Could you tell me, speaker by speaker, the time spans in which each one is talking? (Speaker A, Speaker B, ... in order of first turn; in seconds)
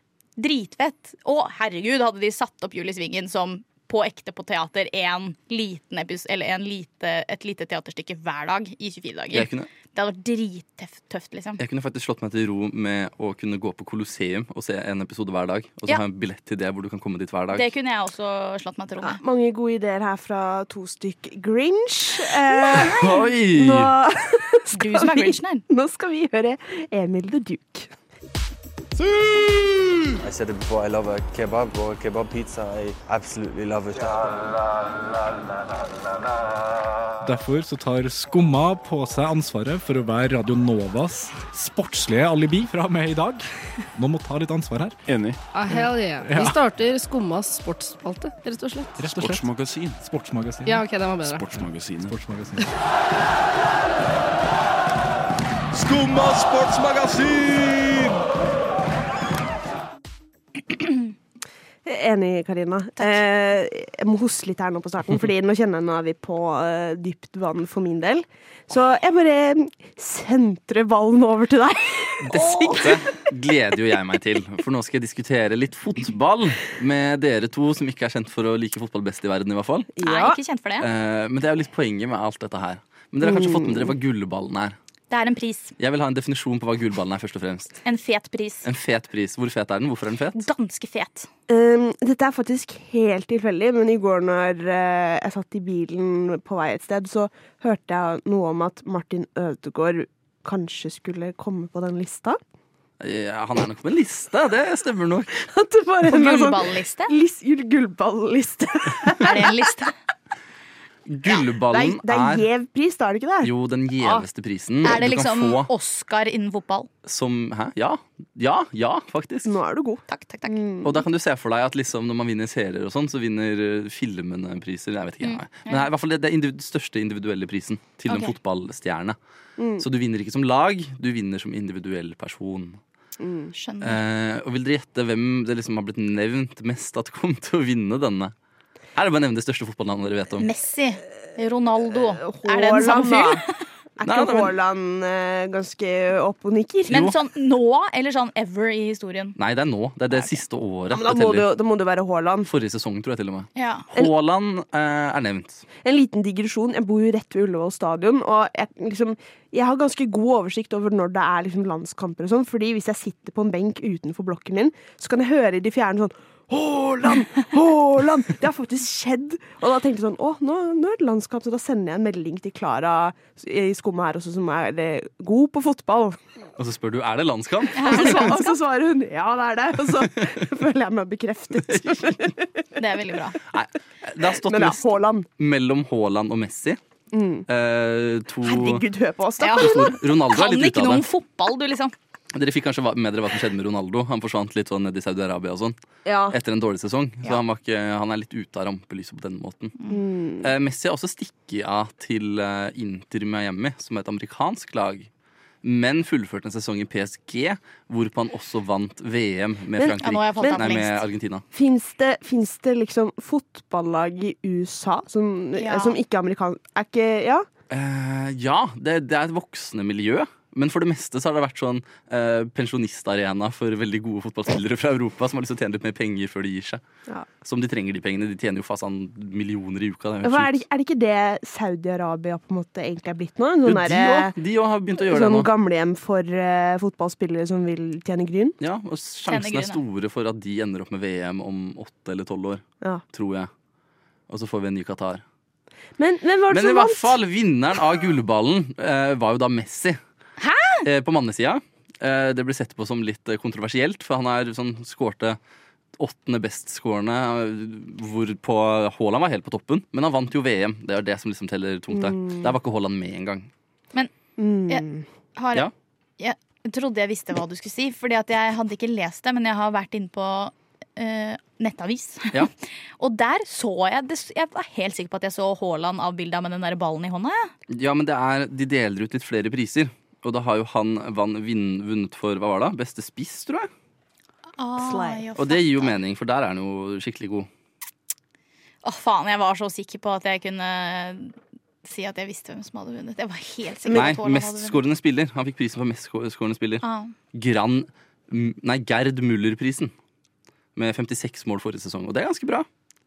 Speaker A: 0.4-11.6, 17.5-19.2, 24.7-25.6, 72.3-72.9, 80.0-80.9, 85.1-85.8, 87.8-88.7, 90.4-91.3, 106.1-107.2, 109.2-109.9, 114.8-116.9, 120.1-120.6, 125.2-125.9, 128.1-128.3, 133.5-134.0, 140.4-143.6, 146.9-149.4, 153.6-153.9, 177.7-178.6, 182.8-183.4, 189.4-191.9, 210.0-211.0, 215.6-216.0, 239.3-239.8, 250.4-250.8, 264.7-272.5, 273.0-277.5, 284.6-285.9, 288.8-294.8, 296.8-297.1
Speaker B: 9.3-9.7, 11.6-17.7, 22.7-23.9, 72.2-79.9, 80.8-84.8, 85.8-87.8, 88.7-90.4, 103.0-105.4, 111.1-112.5, 113.4-115.7, 117.1-119.6, 120.8-129.2, 129.8-132.8, 133.8-138.3, 138.9-140.5, 144.0-144.5, 146.9-147.2, 149.4-151.5, 152.5-155.7, 176.6-178.3, 181.7-182.2, 183.5-186.8, 187.5-188.8, 189.6-191.1, 192.3-195.8, 196.3-199.8, 200.4-205.1, 205.6-211.4, 217.7-226.8, 227.4-230.6, 233.7-235.5, 238.6-243.5, 244.3-245.2, 246.5-250.0, 250.8-255.4, 256.0-263.5, 277.7-283.7, 285.4-287.5, 293.9-299.9, 300.8-302.7
Speaker C: 19.0-27.9, 61.9-73.0, 80.0-80.4, 83.2-83.9, 91.5-102.4, 105.4-109.7, 111.3-114.3, 119.5-121.0, 129.6-129.9, 133.2-133.5, 142.2-143.4, 144.0-147.1, 150.9-152.5, 155.8-176.2, 177.8-182.5, 184.2-185.3, 187.1-187.5, 188.4-190.0, 196.1-196.4, 199.9-200.5, 209.8-210.7, 211.5-217.5, 230.2-234.3, 235.0-238.6, 246.0-247.2, 261.9-262.5, 264.4-265.1, 284.8-285.3, 293.9-294.2
Speaker D: 30.2-34.6
Speaker E: 37.2-45.0, 45.7-46.6, 49.0-49.5, 50.0-50.9, 51.6-52.7
Speaker F: 45.1-45.4, 49.1-50.0, 51.2-52.2, 55.7-58.2
Speaker G: 45.5-49.1, 50.6-51.4